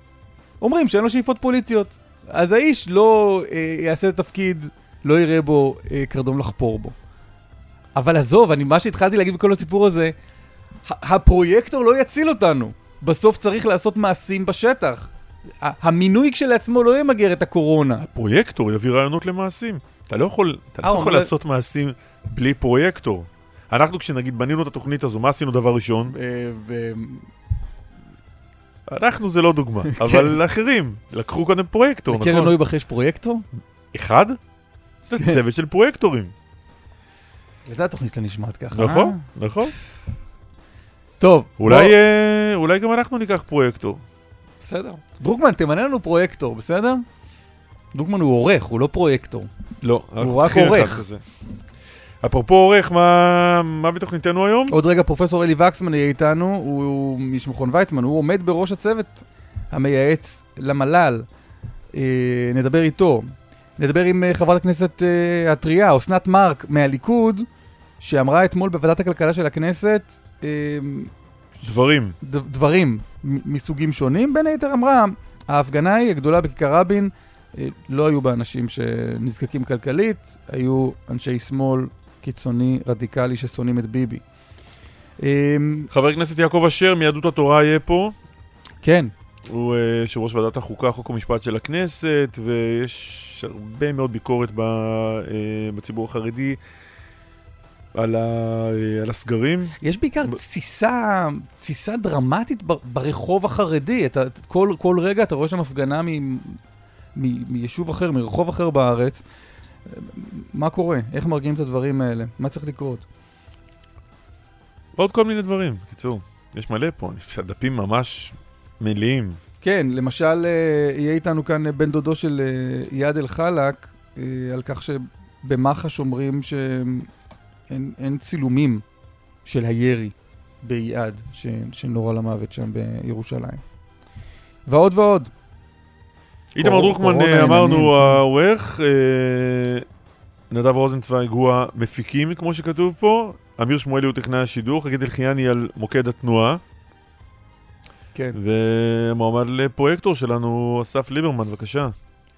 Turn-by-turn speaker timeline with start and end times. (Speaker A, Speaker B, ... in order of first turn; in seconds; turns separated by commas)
Speaker A: 0.6-6.9, Speaker A: 7.9-10.1, Speaker A: 10.8-15.1, Speaker A: 15.6-18.0, Speaker B: 18.0-26.1, Speaker A: 20.8-21.3, Speaker A: 26.1-27.3, Speaker B: 28.9-32.5, Speaker A: 30.0-30.3, Speaker A: 32.1-33.5, Speaker B: 33.9-34.4, Speaker B: 35.0-36.3, Speaker A: 37.6-39.2, Speaker B: 38.7-39.8, Speaker A: 41.2-41.9, Speaker B: 41.6-44.0, Speaker A: 44.6-47.0, Speaker A: 47.9-49.5, Speaker B: 49.8-51.2, Speaker A: 50.2-51.0, Speaker B: 52.2-54.7, Speaker A: 54.7-61.3, Speaker A: 61.9-67.5, Speaker A: 68.0-71.1, Speaker B: 71.6-72.2, Speaker A: 72.2-84.2, Speaker A: 85.2-85.9, Speaker B: 85.9-88.1, Speaker A: 88.8-89.1, Speaker B: 89.5-96.6, Speaker B: 97.9-100.3, Speaker A: 99.8-106.6, Speaker A: 107.1-109.2, Speaker A: 109.8-113.0, Speaker B: 115.0-119.4, Speaker A: 119.6-127.1, Speaker A: 127.7-128.8, Speaker A: 129.4-133.6, Speaker A: 134.7-135.3, Speaker B: 136.5-139.8, Speaker A: 136.6-138.2, Speaker B: 140.5-146.6, Speaker B: 148.3-151.9